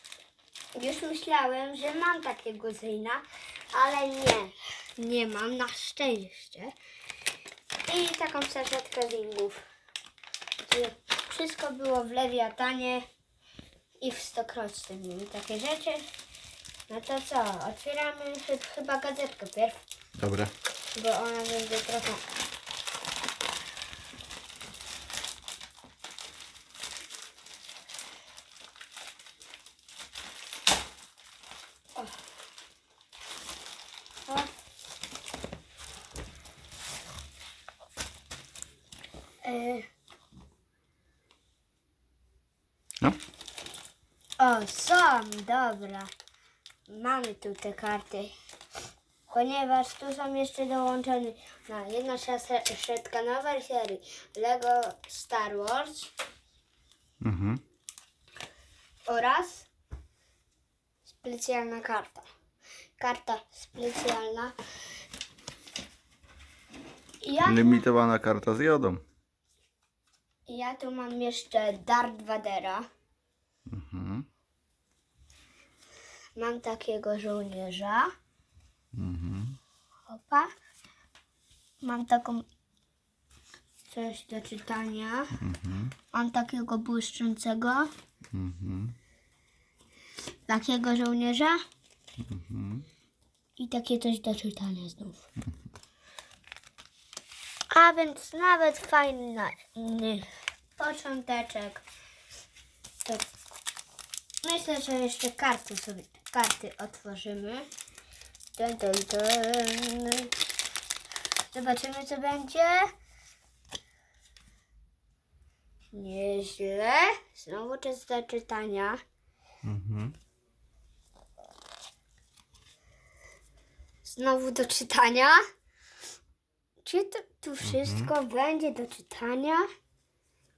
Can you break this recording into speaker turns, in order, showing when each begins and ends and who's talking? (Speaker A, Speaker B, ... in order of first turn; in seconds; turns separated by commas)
Speaker A: 0.8-6.7, Speaker A: 7.9-9.6, Speaker A: 10.7-13.1, Speaker A: 14.0-16.1, Speaker A: 16.9-19.8, Speaker B: 20.2-20.5, Speaker A: 20.9-22.2, Speaker A: 39.4-39.9, Speaker A: 44.4-46.1, Speaker A: 46.9-48.3, Speaker A: 49.3-56.1, Speaker B: 57.2-57.6, Speaker A: 59.0-59.7, Speaker A: 61.0-62.3, Speaker A: 63.0-64.5, Speaker A: 67.2-67.8, Speaker B: 67.4-69.0, Speaker A: 70.5-72.8, Speaker B: 73.7-74.2, Speaker A: 76.3-78.1, Speaker B: 78.9-79.6, Speaker A: 80.1-80.5, Speaker A: 81.8-82.4, Speaker A: 83.9-85.4, Speaker B: 85.4-85.9, Speaker A: 86.1-87.9, Speaker B: 88.3-88.9, Speaker A: 90.5-91.6, Speaker B: 92.2-92.8, Speaker A: 93.6-95.2, Speaker A: 97.7-100.2, Speaker A: 100.8-101.8, Speaker A: 104.4-107.7, Speaker A: 108.5-110.3, Speaker A: 111.5-112.9, Speaker A: 115.9-119.0, Speaker B: 119.6-120.2, Speaker A: 124.0-125.4, Speaker A: 126.8-129.7, Speaker B: 127.6-128.1